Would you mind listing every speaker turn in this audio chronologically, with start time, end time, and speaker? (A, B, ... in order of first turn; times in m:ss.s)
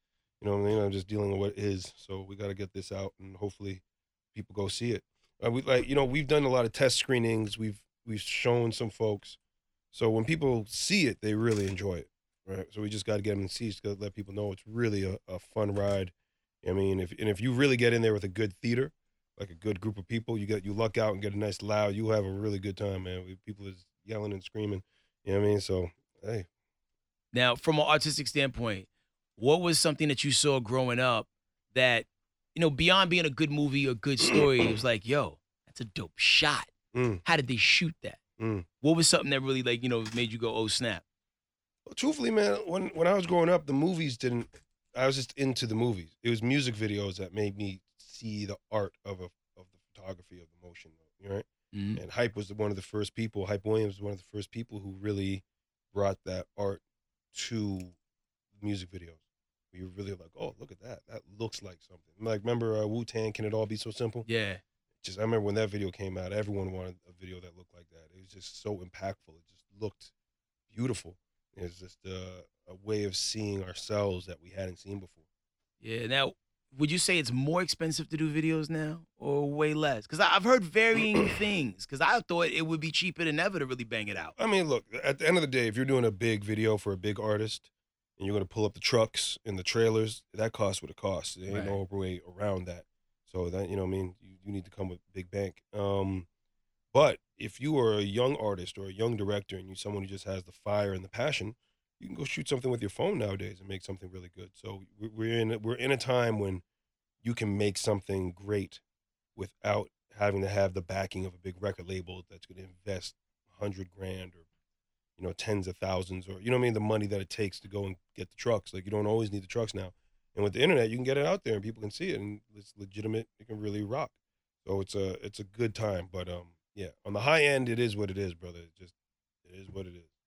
0:00.4-0:03.8 A
0:04.3-0:09.4 A
0:09.9-0:16.1 A
0:16.6-0:26.5 A
0:27.3-0:36.7 B
0:34.2-0:34.5 A
0:36.9-0:37.2 A
0:37.2-0:38.2 B
0:38.4-0:38.7 A
0:38.8-0:41.0 B
0:41.9-0:56.8 A
0:51.7-0:52.0 B
0:57.3-0:58.0 A
0:58.6-0:59.2 A
0:59.7-1:04.3 A
1:04.3-1:04.6 B
1:05.0-1:10.1 A
1:10.7-1:15.2 A
1:15.8-1:24.4 B
1:24.4-1:36.3 A
1:31.5-1:31.8 B
1:36.9-1:46.6 A
1:47.2-1:48.8 A
1:49.4-1:54.4 A
1:55.2-2:08.9 A
2:09.4-2:10.1 A